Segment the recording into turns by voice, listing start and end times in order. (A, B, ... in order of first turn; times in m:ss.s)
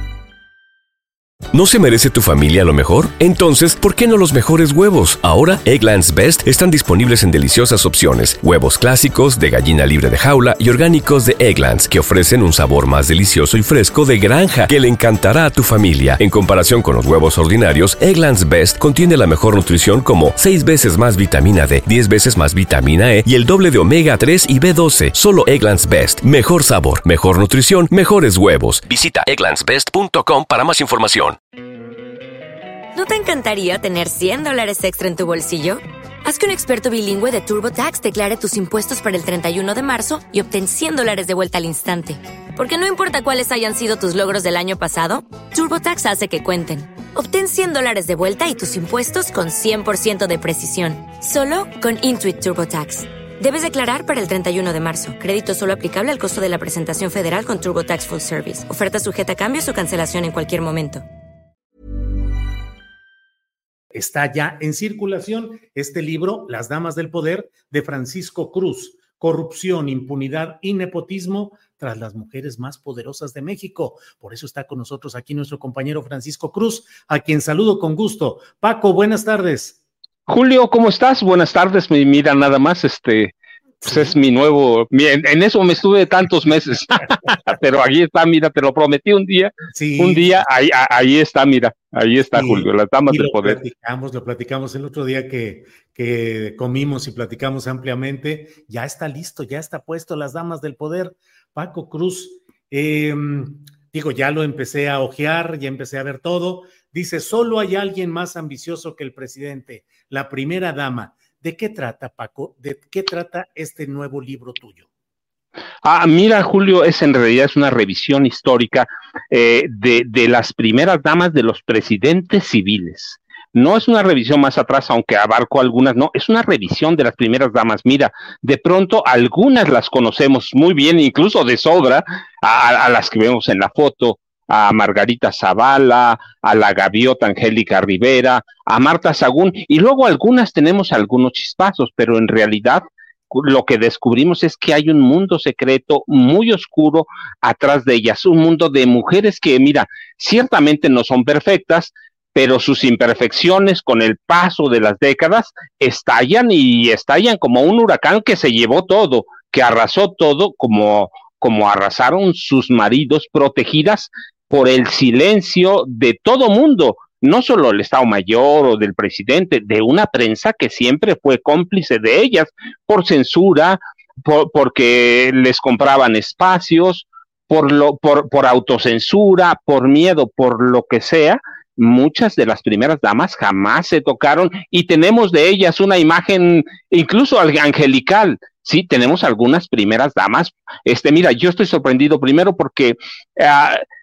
0:01.5-0:31.4 A
0:32.9-1:01.0 B
1:03.9-1:19.8 C
1:20.3-1:23.3 D
1:23.8-1:24.2 C
1:23.8-1:33.6 D
1:29.7-1:30.4 C
1:32.3-1:54.9 C
1:55.8-3:13.8 D